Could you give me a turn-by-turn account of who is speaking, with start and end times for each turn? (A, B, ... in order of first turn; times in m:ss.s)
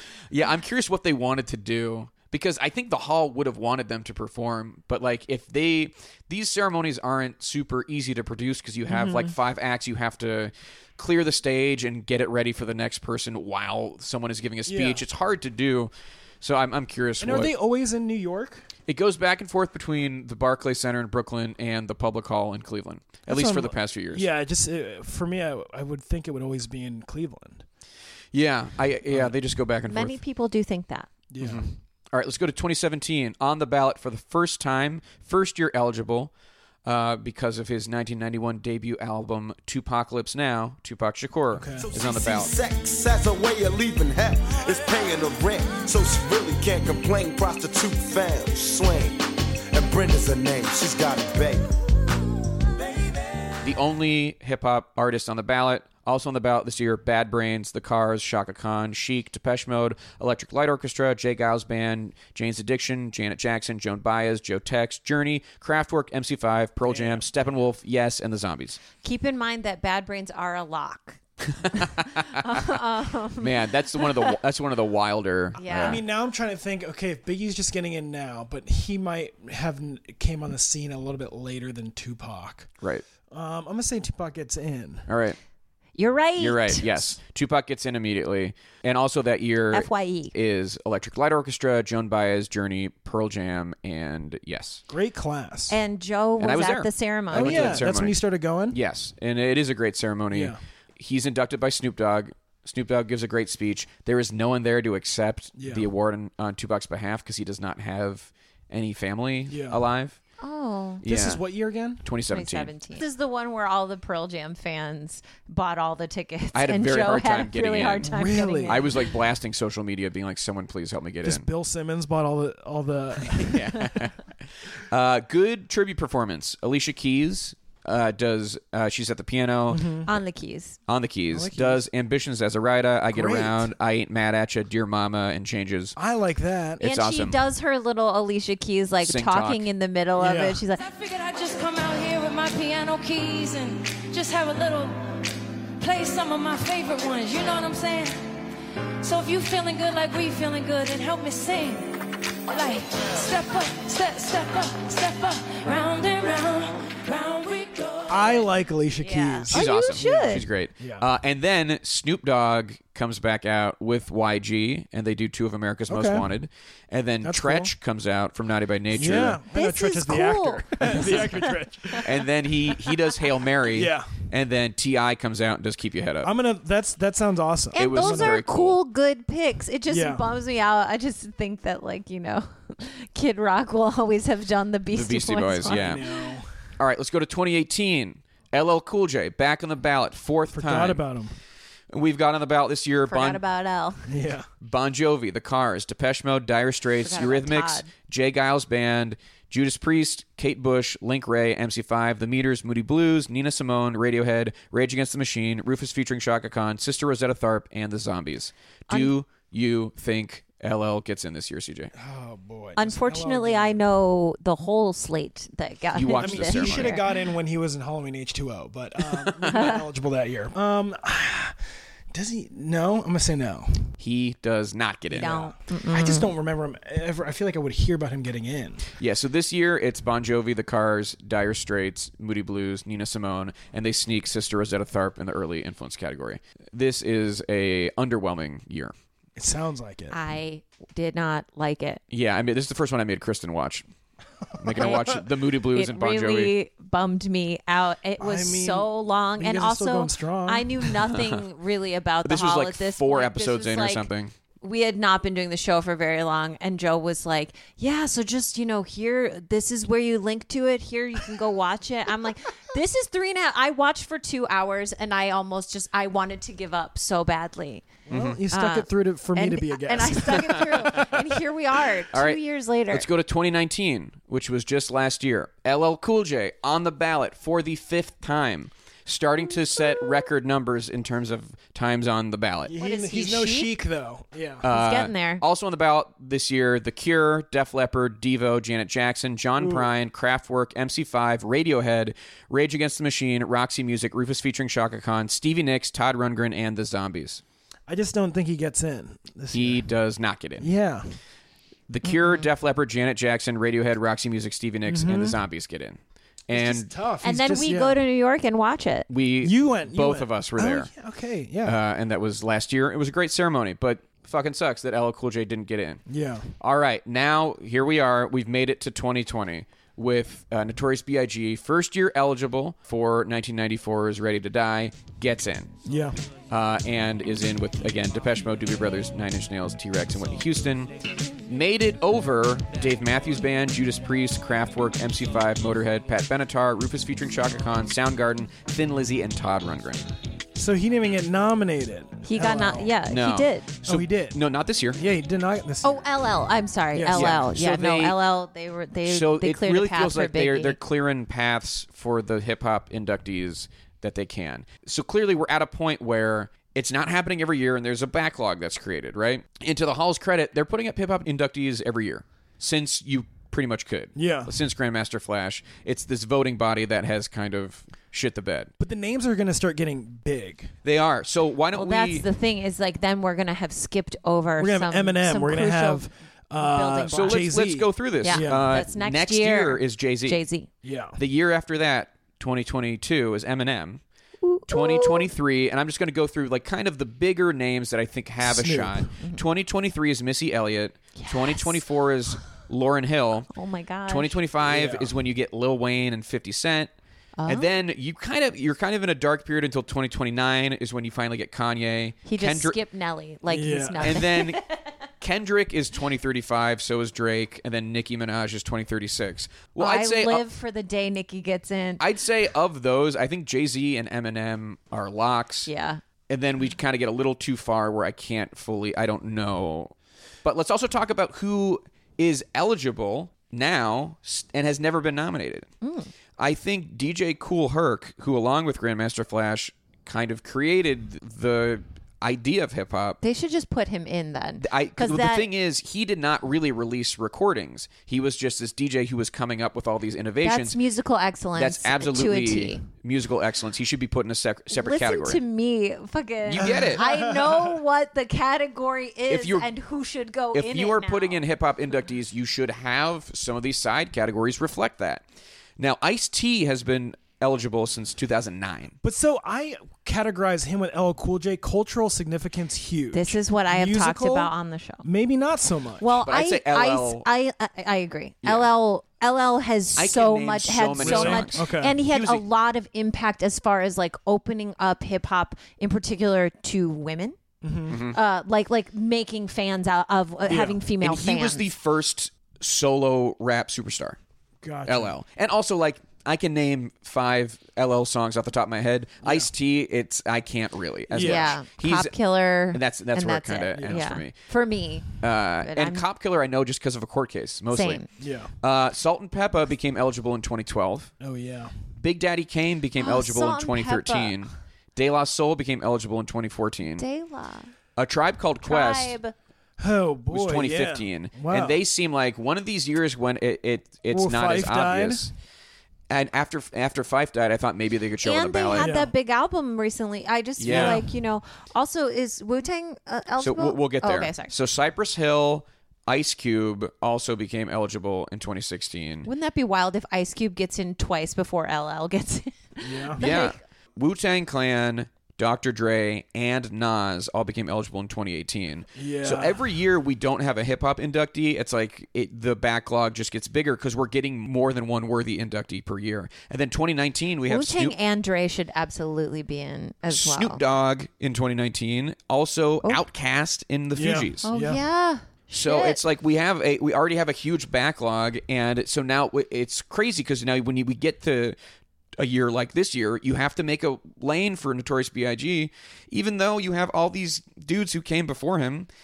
0:00.3-0:17.5 A
0:08.9-0:09.3 B
0:14.6-0:15.0 B
0:17.2-0:18.6 B
0:18.9-0:24.3 A
0:23.3-0:27.6 B
0:28.3-0:30.2 A
0:29.9-0:31.1 C
0:31.3-0:31.7 B
0:31.4-0:36.3 A
0:36.8-0:42.5 A
0:41.5-0:41.9 B
0:41.8-0:49.2 D
0:49.7-0:51.7 D
0:53.6-1:08.8 A
1:06.8-1:07.3 B
1:09.0-1:11.2 C
1:11.5-1:12.6 A
1:11.7-1:14.4 C
1:13.4-1:16.0 A
1:15.6-1:16.0 C
1:15.6-1:22.7 B
1:23.3-1:25.1 B
1:25.1-1:25.4 A
1:26.0-1:27.0 C
1:26.4-1:34.8 A
1:29.7-1:30.3 C
1:34.9-1:35.8 B
1:35.7-1:37.9 C
1:36.4-1:50.2 A
1:37.3-1:38.8 B
1:40.3-1:40.6 B
1:45.6-1:45.9 B
1:49.5-1:49.8 B
1:50.4-1:51.0 C
1:51.0-1:51.4 A
1:51.0-1:52.0 B
1:52.0-1:52.7 A
1:52.3-1:59.1 C
1:56.5-2:01.5 A
1:58.0-1:58.8 B
2:01.2-2:03.9 B
2:03.3-2:04.3 A
2:04.9-2:09.9 A
2:09.7-2:10.1 B
2:10.0-2:10.8 C
2:10.9-2:16.0 A
2:11.3-2:11.8 B
2:13.1-2:13.7 B
2:16.0-2:16.8 B
2:16.8-2:17.4 A
2:16.8-2:20.8 C
2:19.0-2:19.7 A
2:20.2-2:20.6 B
2:20.8-2:25.0 E
2:25.8-2:28.3 E
2:29.0-2:38.5 E
2:38.1-2:40.2 B
2:39.0-2:40.5 C
2:39.5-2:49.4 A
2:40.8-2:41.0 B
2:45.9-2:46.3 B
2:47.2-2:47.7 B
2:48.9-2:52.1 B
2:49.5-2:51.5 C
2:50.8-2:51.5 A
2:52.0-2:56.3 A
2:53.7-2:54.1 B
2:56.2-2:58.4 B
2:57.7-3:06.2 C
2:57.7-2:58.8 A
2:59.9-3:00.2 B
3:04.9-3:06.1 A
3:05.6-3:06.5 B
3:06.8-3:11.0 A
3:10.5-3:11.3 B
3:11.9-3:13.4 A
3:13.1-3:14.2 C
3:14.1-3:14.5 B
3:14.6-3:31.9 A
3:17.0-3:17.9 C
3:28.9-3:29.1 C
3:32.0-3:33.8 B
3:32.8-3:37.2 C
3:35.9-3:37.0 A
3:36.0-3:41.6 B
3:39.2-3:39.6 A
3:42.1-3:43.9 B
3:44.0-3:45.4 A
3:45.1-3:48.8 B
3:45.1-3:46.3 C
3:49.0-3:58.9 A
3:59.4-4:00.2 B
4:00.1-4:02.0 C
4:02.1-4:03.8 A
4:04.6-4:06.5 A
4:04.7-4:05.1 B
4:04.8-4:05.2 C
4:05.7-4:14.1 C
4:08.2-4:11.0 B
4:12.2-4:14.3 A
4:14.6-4:27.9 C
4:28.1-4:31.1 B
4:28.1-4:28.4 A
4:28.5-4:33.1 C
4:32.1-4:42.7 A
4:42.7-4:44.6 B
4:42.8-4:43.7 C
4:44.6-4:57.4 A
4:44.7-4:45.4 C
4:49.6-4:49.9 B
4:57.9-4:59.8 B
4:59.5-5:00.7 A
5:00.6-5:01.2 B
5:01.9-5:06.9 A
5:04.8-5:05.4 B
5:06.5-5:08.0 B
5:07.2-5:09.1 C
5:09.1-5:10.9 A
5:09.4-5:11.8 B
5:11.6-5:16.0 A
5:16.1-5:16.5 B
5:16.6-5:25.7 A
5:25.8-5:26.2 B
5:26.5-5:30.9 A
5:31.4-5:40.0 A
5:40.5-5:42.9 B
5:42.2-5:43.7 C
5:43.1-5:45.0 A
5:43.8-5:44.4 B
5:44.9-5:46.1 B
5:45.8-5:50.8 C
5:46.9-5:47.5 B
5:47.1-5:48.2 A
5:49.0-6:08.7 A
6:04.2-6:04.5 B
6:08.8-6:10.7 B
6:10.8-6:12.2 A
6:11.7-6:17.5 C
6:14.6-6:18.7 B
6:17.1-6:20.4 A
6:18.2-6:20.7 C
6:20.8-6:21.2 B
6:21.2-6:24.0 A
6:24.4-6:25.3 C
6:24.7-6:33.5 A
6:28.4-6:29.1 B
6:29.2-6:29.4 C
6:31.2-6:31.7 C
6:33.5-6:34.4 C
6:34.0-6:36.9 A
6:34.6-6:35.1 B
6:37.4-6:37.7 C
6:37.5-6:42.8 A
6:42.2-6:44.8 C
6:43.5-6:44.2 B
6:44.0-6:44.6 A
6:45.2-6:50.4 A
6:49.8-6:52.0 C
6:52.0-6:55.7 A
6:55.7-6:56.0 C
6:56.3-7:05.7 A
7:05.8-7:06.1 C
7:06.4-7:13.2 A
7:13.2-7:15.5 C
7:14.6-7:20.8 A
7:20.4-7:22.8 C
7:21.6-7:25.4 A
7:24.7-7:31.4 C
7:26.4-7:27.0 A
7:26.6-7:27.8 B
7:29.3-7:29.7 A
7:30.5-7:35.2 A
7:35.8-7:39.0 A
7:39.0-7:44.5 B
7:43.1-7:45.0 C
7:45.0-7:46.0 B
7:46.0-7:57.4 C
7:46.2-7:47.3 A
7:48.4-7:48.7 A
7:50.0-7:52.4 A
7:51.0-7:52.0 B
7:57.6-7:58.0 B
7:57.9-7:58.2 A
7:58.1-8:01.6 C
8:00.5-8:00.8 B
8:01.0-8:04.2 A
8:04.6-8:05.1 B
8:04.8-8:12.1 A
8:09.2-8:09.5 B
8:11.1-8:11.6 B
8:11.2-8:16.0 C
8:12.7-8:14.3 A
8:13.7-8:14.2 B
8:15.2-8:18.0 A
8:17.7-8:18.1 C
8:18.2-8:18.5 B
8:18.6-8:21.1 A
8:21.2-8:21.7 B
8:22.0-8:27.0 A
8:23.0-8:24.4 C
8:27.0-8:27.7 C
8:28.0-8:29.2 A
8:28.6-8:29.3 C
8:29.8-8:31.8 B
8:30.3-8:35.3 A
8:34.1-8:35.3 B
8:36.1-8:38.9 A
8:38.2-8:44.5 C
8:38.8-8:39.1 B
8:40.6-8:41.1 A
8:40.6-8:41.0 B
8:43.4-8:49.3 A
8:49.2-8:53.6 C
8:52.8-8:53.2 B
8:53.2-9:08.0 A
8:59.0-8:59.6 B
9:07.4-9:10.6 C
9:10.1-9:14.4 A
9:13.9-9:14.8 B
9:14.4-9:16.0 C
9:15.5-9:21.6 A
9:22.2-9:28.9 A